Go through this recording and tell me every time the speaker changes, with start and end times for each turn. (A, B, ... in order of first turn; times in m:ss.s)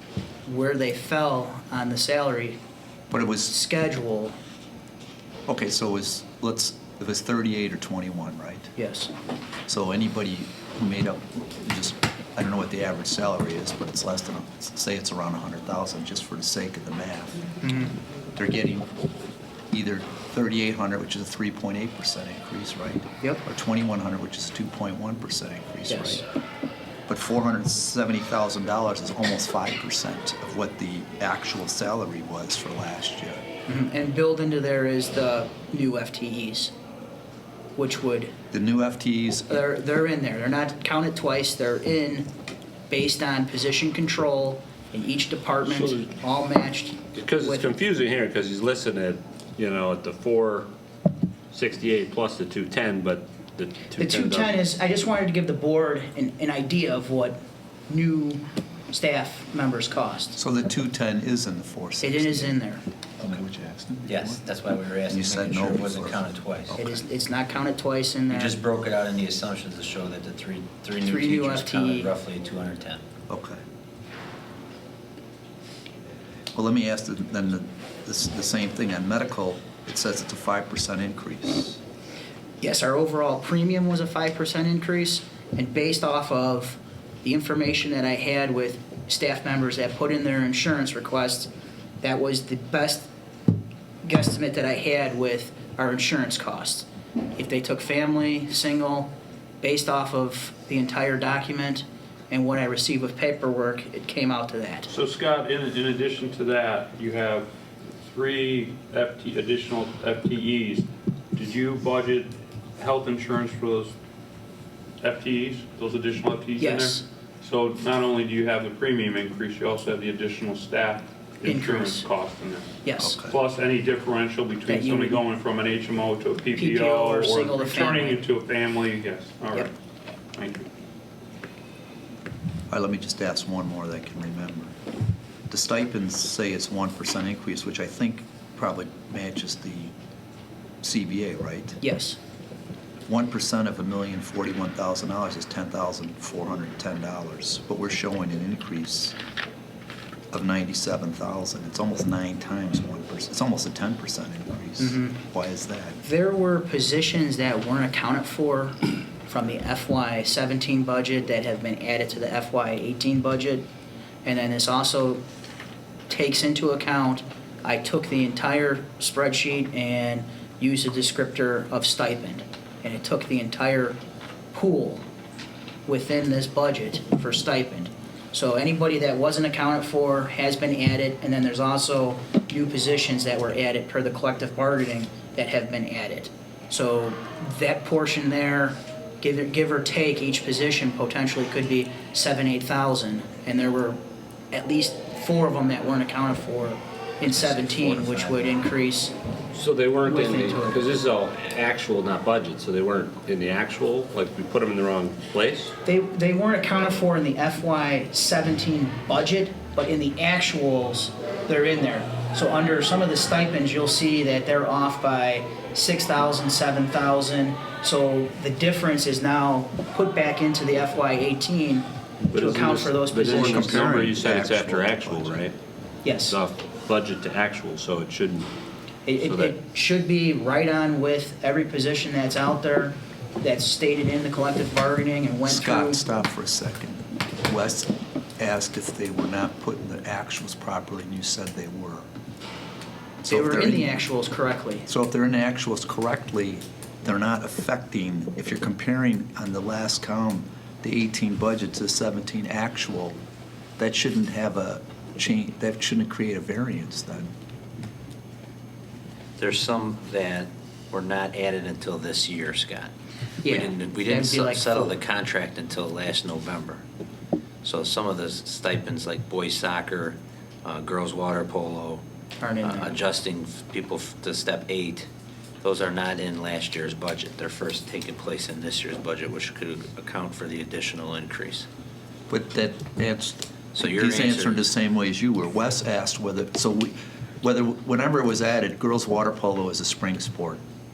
0:00.4-0:02.6 A
0:03.1-0:03.5 B
0:03.5-0:04.3 A
0:05.5-0:08.7 B
0:08.8-0:09.1 A
0:09.7-0:17.4 B
0:17.6-0:17.9 A
0:18.4-0:18.9 B
0:19.7-0:26.2 B
0:25.9-0:26.2 A
0:27.1-0:33.4 B
0:33.6-0:36.7 A
0:37.8-0:38.3 A
0:38.5-0:39.6 B
0:39.5-0:42.3 A
0:42.9-0:47.8 A
0:45.7-0:46.0 C
0:47.1-0:50.7 C
0:51.5-0:54.5 C
0:54.0-0:57.4 A
0:57.9-1:00.4 A
1:00.4-1:02.5 B
1:02.0-1:02.8 A
1:03.2-1:04.4 B
1:04.1-1:06.7 D
1:05.1-1:07.1 B
1:06.8-1:08.6 A
1:08.3-1:13.0 D
1:11.0-1:12.1 A
1:13.3-1:13.6 B
1:16.5-1:21.8 B
1:22.6-1:31.5 A
1:32.0-1:33.1 A
1:34.0-1:39.1 A
1:39.6-1:44.9 A
1:44.9-1:47.5 E
1:48.0-1:53.9 E
1:55.0-2:09.7 E
1:56.6-1:57.0 A
2:01.4-2:02.1 A
2:02.8-2:03.2 A
2:03.0-2:03.3 B
2:04.7-2:05.2 A
2:06.5-2:08.2 A
2:10.3-2:10.7 E
2:12.7-2:14.7 B
2:15.5-2:19.9 B
2:20.8-2:21.8 B
2:21.8-2:22.2 A
2:23.1-2:29.2 B
2:30.3-2:36.0 B
2:34.8-2:35.2 A
2:36.0-2:43.7 A
2:44.2-2:45.2 A
2:46.1-2:54.0 A
2:54.5-2:55.0 A
2:55.8-3:14.0 A
3:14.5-3:19.1 A
3:17.2-3:18.5 D
3:19.5-3:25.8 C
3:20.0-3:21.0 A
3:25.8-3:44.0 A
3:42.3-3:45.5 C
3:43.2-3:45.5 B
3:46.0-3:46.4 A
3:46.2-3:48.5 C
3:49.0-3:56.0 A
3:49.2-3:49.5 C
3:55.4-4:02.1 B
4:03.2-4:04.0 B
4:03.2-4:04.9 A
4:04.9-4:13.2 B
4:13.8-4:17.3 B
4:19.4-4:22.9 D
4:23.4-4:24.9 A
4:23.4-4:26.8 D
4:27.6-4:32.0 D
4:32.4-4:33.0 A
4:32.6-4:35.1 D
4:35.6-4:41.7 D
4:42.3-4:50.6 B
4:43.7-4:44.6 D